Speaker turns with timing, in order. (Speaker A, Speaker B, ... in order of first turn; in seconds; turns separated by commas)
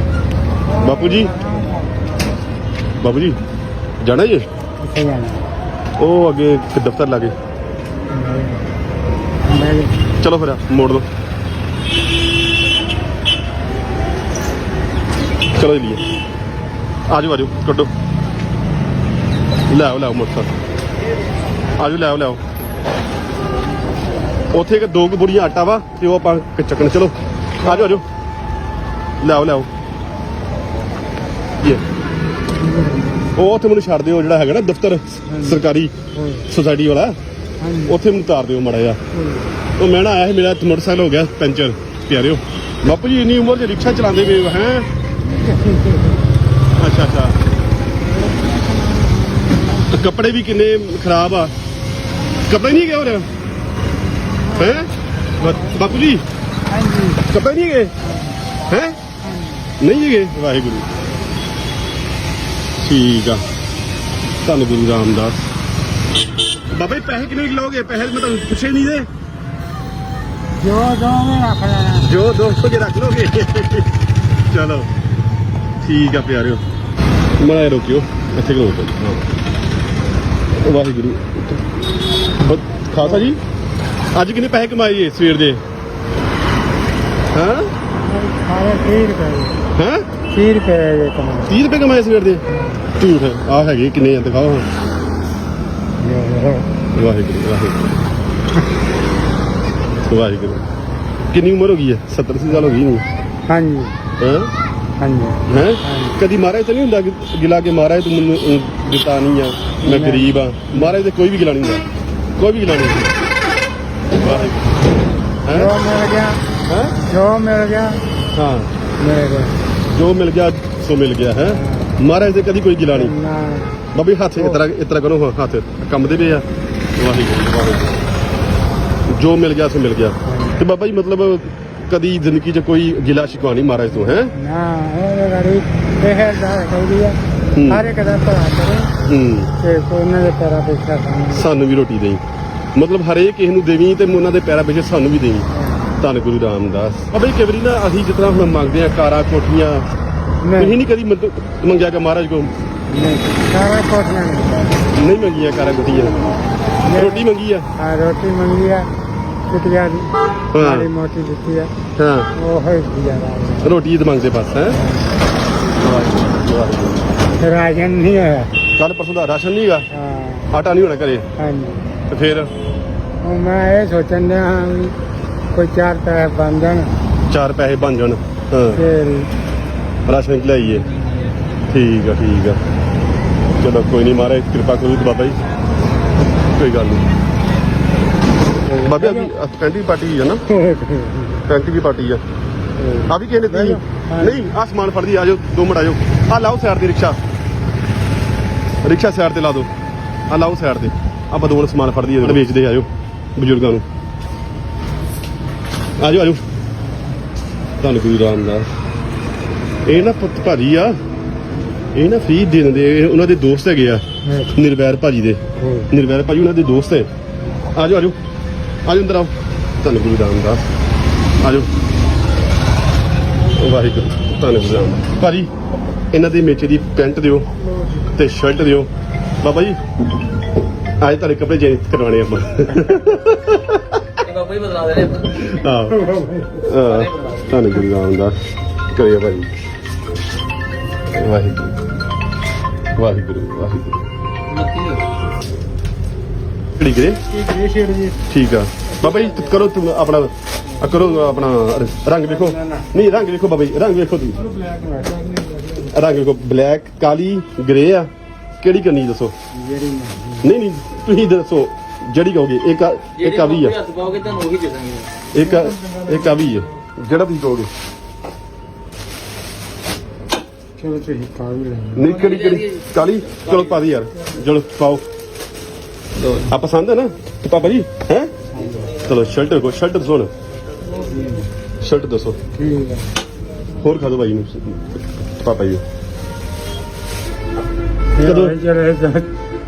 Speaker A: 0.7-1.9, Speaker B: 0.8-1.3, Speaker B: 3.0-3.4, Speaker B: 4.0-4.5, Speaker A: 4.8-5.5, Speaker B: 6.0-7.3, Speaker A: 8.1-8.6, Speaker A: 9.5-10.0, Speaker B: 10.2-11.1, Speaker B: 15.6-16.0, Speaker B: 17.1-17.9, Speaker B: 19.7-20.5, Speaker B: 21.8-22.4, Speaker B: 24.5-28.1, Speaker A: 27.6-27.9, Speaker B: 29.2-29.7, Speaker A: 32.6-33.3, Speaker B: 33.3-35.9, Speaker A: 35.3-36.5, Speaker B: 36.5-37.2, Speaker A: 37.6-38.0, Speaker B: 37.9-39.0, Speaker A: 39.1-39.6, Speaker B: 39.8-44.9, Speaker A: 45.2-46.3, Speaker B: 46.8-47.4, Speaker A: 48.1-50.0, Speaker B: 49.9-51.5, Speaker B: 52.5-53.3, Speaker A: 54.4-54.7, Speaker B: 54.5-56.2, Speaker A: 56.7-57.3, Speaker B: 57.3-57.9, Speaker A: 58.0-58.4, Speaker B: 58.7-59.0, Speaker A: 59.2-59.7, Speaker B: 59.8-60.9, Speaker B: 62.8-63.4, Speaker B: 64.4-65.5, Speaker B: 66.7-69.1, Speaker A: 70.6-72.1, Speaker B: 72.0-73.9, Speaker B: 74.5-74.9, Speaker B: 75.8-76.6, Speaker B: 77.4-79.3, Speaker B: 80.5-81.7, Speaker B: 82.4-83.4, Speaker A: 83.0-83.3, Speaker B: 84.1-85.6, Speaker B: 87.3-87.7, Speaker A: 88.0-89.6, Speaker B: 89.7-90.1, Speaker A: 90.3-91.5, Speaker B: 91.5-94.7, Speaker A: 92.5-92.9, Speaker A: 96.0-96.7, Speaker B: 96.9-98.1, Speaker B: 100.1-100.6, Speaker B: 101.3-103.0, Speaker A: 103.5-104.0, Speaker B: 104.2-104.5, Speaker A: 105.0-106.2, Speaker B: 105.5-111.9, Speaker A: 109.8-110.9, Speaker B: 112.4-113.1, Speaker B: 114.1-114.8, Speaker A: 114.2-114.5, Speaker B: 115.5-115.7, Speaker A: 115.5-116.4, Speaker B: 116.7-117.0, Speaker A: 117.0-118.0, Speaker B: 118.3-118.7, Speaker A: 119.0-119.6, Speaker B: 119.9-123.1, Speaker A: 121.4-122.0, Speaker A: 122.9-123.8, Speaker B: 123.9-126.5, Speaker A: 124.4-124.6, Speaker B: 127.0-128.0, Speaker B: 129.1-134.3, Speaker A: 130.2-130.6, Speaker A: 134.3-139.0, Speaker B: 137.5-137.9, Speaker B: 139.1-139.5, Speaker A: 139.6-141.5, Speaker B: 141.3-142.2, Speaker B: 142.8-149.9, Speaker A: 145.5-145.9, Speaker A: 150.4-150.8, Speaker B: 150.6-152.5, Speaker A: 152.9-154.8, Speaker B: 154.9-156.3, Speaker A: 156.8-158.9, Speaker B: 156.9-157.7, Speaker A: 159.5-161.7, Speaker B: 160.5-160.9, Speaker B: 162.0-162.3, Speaker A: 162.3-163.8, Speaker B: 163.6-164.8, Speaker A: 164.7-165.2, Speaker B: 165.8-167.1, Speaker A: 167.4-168.6, Speaker B: 168.8-169.9, Speaker A: 169.9-170.5, Speaker B: 170.5-171.3, Speaker A: 171.4-171.9, Speaker B: 172.1-172.5, Speaker A: 173.2-175.0, Speaker A: 175.5-176.9, Speaker B: 177.3-178.8, Speaker A: 178.7-179.3, Speaker B: 180.1-180.9, Speaker C: 180.9-181.3, Speaker B: 181.7-182.6, Speaker B: 183.6-185.4, Speaker B: 186.4-187.1, Speaker A: 188.6-189.3, Speaker B: 188.8-190.4, Speaker A: 190.5-191.4, Speaker B: 191.5-192.2, Speaker A: 192.8-194.4, Speaker B: 193.1-197.2, Speaker B: 198.8-199.7, Speaker B: 200.3-203.9, Speaker B: 206.0-206.4, Speaker B: 207.8-208.7, Speaker B: 209.9-211.0, Speaker B: 211.9-217.1, Speaker A: 214.2-214.6, Speaker A: 215.6-215.9, Speaker B: 217.7-218.2, Speaker B: 218.9-220.7, Speaker B: 221.4-221.7, Speaker B: 223.5-225.5, Speaker B: 226.1-227.5, Speaker B: 228.0-228.9, Speaker B: 229.4-229.8, Speaker B: 231.0-234.0, Speaker C: 234.2-235.5, Speaker B: 235.3-238.4, Speaker A: 235.9-236.6, Speaker C: 236.8-237.7, Speaker B: 238.9-239.5, Speaker B: 241.1-241.8, Speaker B: 243.0-244.0, Speaker C: 244.5-245.1, Speaker B: 246.8-247.2, Speaker A: 247.3-248.2, Speaker B: 248.3-254.4, Speaker C: 249.0-249.6, Speaker A: 250.9-251.2, Speaker A: 252.2-252.9, Speaker A: 254.5-255.9, Speaker B: 255.8-259.3, Speaker A: 259.5-260.5, Speaker B: 260.4-263.8, Speaker C: 263.2-265.1, Speaker B: 265.3-267.7, Speaker A: 265.4-266.2, Speaker A: 270.8-272.1, Speaker B: 271.9-275.0, Speaker C: 272.0-273.8, Speaker C: 276.2-276.5, Speaker B: 276.5-278.3, Speaker A: 278.5-279.0, Speaker B: 279.0-280.3, Speaker A: 280.9-281.5, Speaker B: 281.8-282.4, Speaker A: 282.5-283.1, Speaker B: 283.8-285.8, Speaker A: 288.1-289.3, Speaker B: 288.2-288.6